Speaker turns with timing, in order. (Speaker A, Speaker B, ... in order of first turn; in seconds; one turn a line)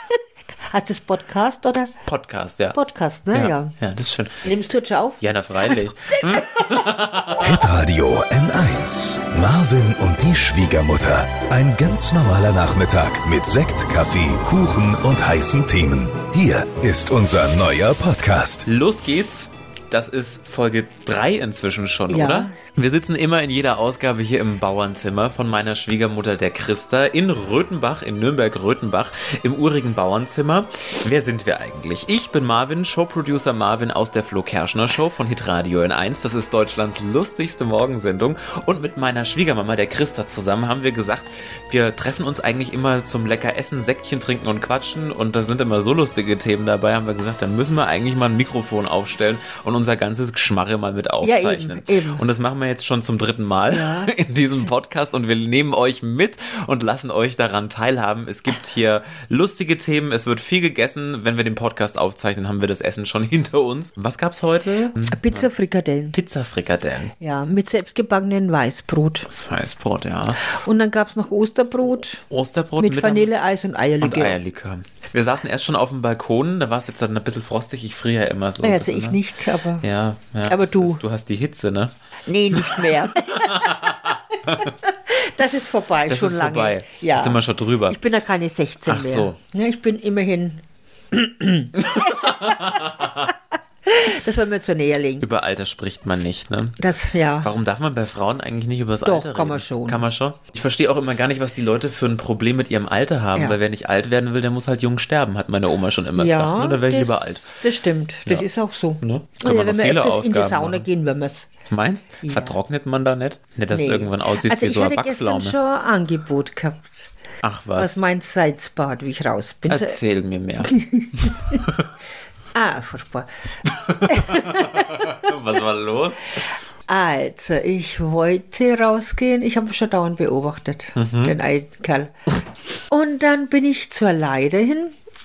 Speaker A: 0.7-1.9
Speaker B: 2.1-2.8
Speaker A: 2.7-3.8
Speaker B: 3.3-4.4
Speaker A: 4.4-6.4
Speaker B: 5.2-7.7
Speaker C: 7.4-18.6
Speaker B: 18.6-65.5
Speaker A: 22.1-22.6
Speaker A: 51.2-52.2
Speaker A: 53.7-54.6
Speaker A: 65.0-66.2
Speaker B: 66.1-67.1
Speaker A: 67.2-69.3
Speaker B: 69.3-70.6
Speaker A: 70.4-72.2
Speaker B: 72.3-73.3
Speaker A: 72.8-74.4
Speaker B: 74.0-79.2
Speaker A: 78.6-79.8
Speaker B: 79.8-81.9
Speaker A: 80.5-81.0
Speaker A: 82.3-83.6
Speaker B: 82.5-84.7
Speaker A: 85.1-93.3
Speaker B: 86.1-88.0
Speaker B: 88.9-89.4
Speaker B: 91.9-92.9
Speaker A: 93.8-95.3
Speaker B: 95.2-96.8
Speaker A: 96.8-97.5
Speaker B: 97.4-107.6
Speaker A: 99.0-100.1
Speaker A: 106.1-111.5
Speaker B: 109.0-110.9
Speaker B: 111.7-115.6
Speaker A: 112.2-112.6
Speaker A: 113.7-117.1
Speaker B: 117.4-118.0
Speaker A: 117.8-120.0
Speaker B: 119.7-121.7
Speaker A: 120.6-121.6
Speaker A: 122.5-123.3
Speaker B: 123.7-126.4
Speaker A: 124.0-124.9
Speaker A: 126.9-132.1
Speaker B: 131.0-131.3
Speaker A: 132.9-134.9